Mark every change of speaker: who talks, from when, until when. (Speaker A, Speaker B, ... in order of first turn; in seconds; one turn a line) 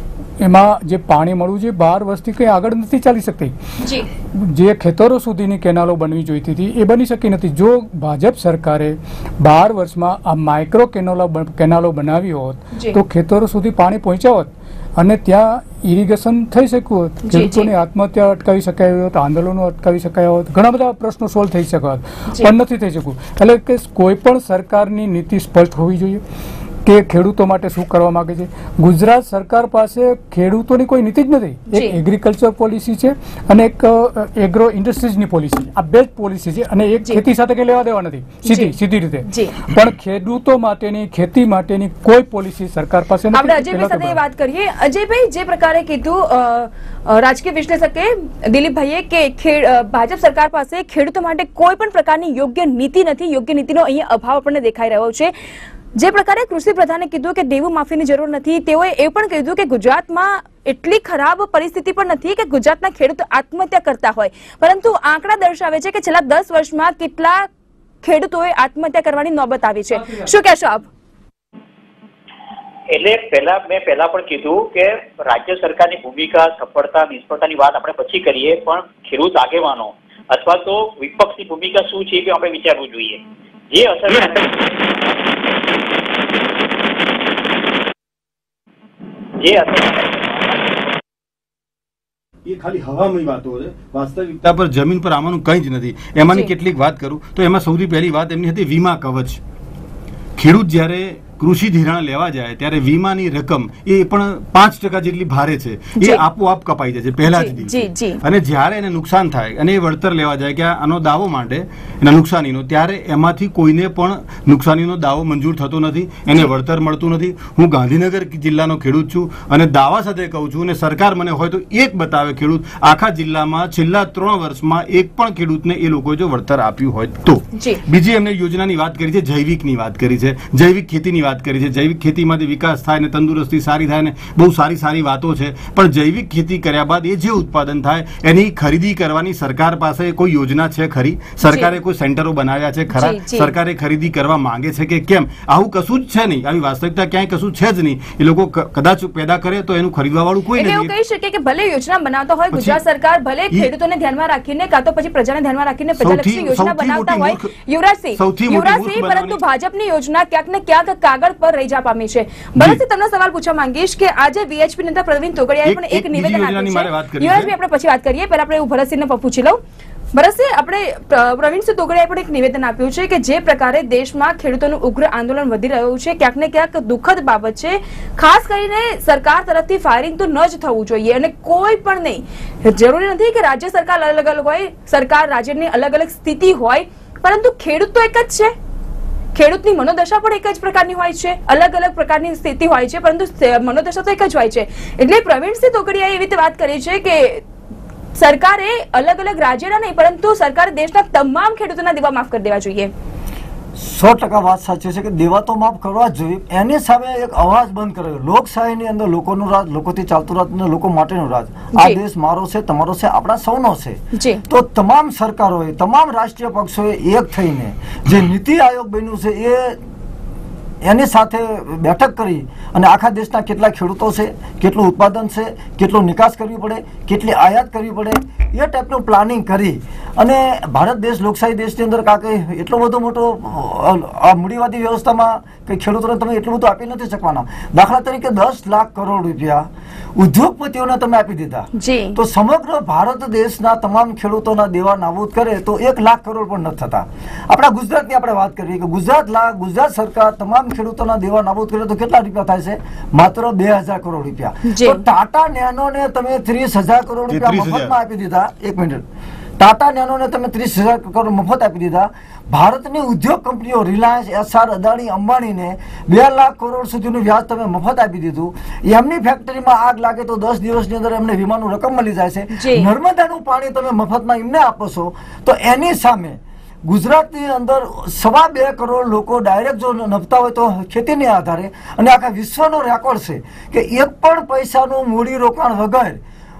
Speaker A: 0.4-3.5
Speaker B: 3.8-4.1
Speaker A: 4.3-26.2
Speaker B: 17.3-17.7
Speaker A: 26.9-44.2
Speaker B: 31.7-32.0
Speaker B: 38.4-38.7
Speaker B: 39.2-39.6
Speaker B: 43.3-55.3
Speaker B: 56.0-67.5
Speaker B: 68.0-70.9
Speaker A: 70.0-70.3
Speaker C: 72.9-85.5
Speaker C: 89.4-90.9
Speaker D: 92.5-99.4
Speaker D: 100.4-150.9
Speaker B: 107.3-108.2
Speaker B: 127.5-127.8
Speaker B: 141.4-141.7
Speaker B: 142.9-143.5
Speaker B: 150.6-169.6
Speaker D: 152.5-152.8
Speaker D: 156.0-157.5
Speaker D: 158.2-159.4
Speaker D: 165.7-167.5
Speaker B: 170.1-188.5
Speaker B: 189.3-197.4
Speaker B: 198.2-202.9
Speaker E: 203.8-219.8
Speaker B: 214.1-214.4
Speaker E: 220.8-259.0
Speaker B: 241.8-242.2
Speaker B: 254.7-255.0
Speaker D: 257.3-257.9
Speaker E: 259.6-286.2
Speaker B: 272.5-272.9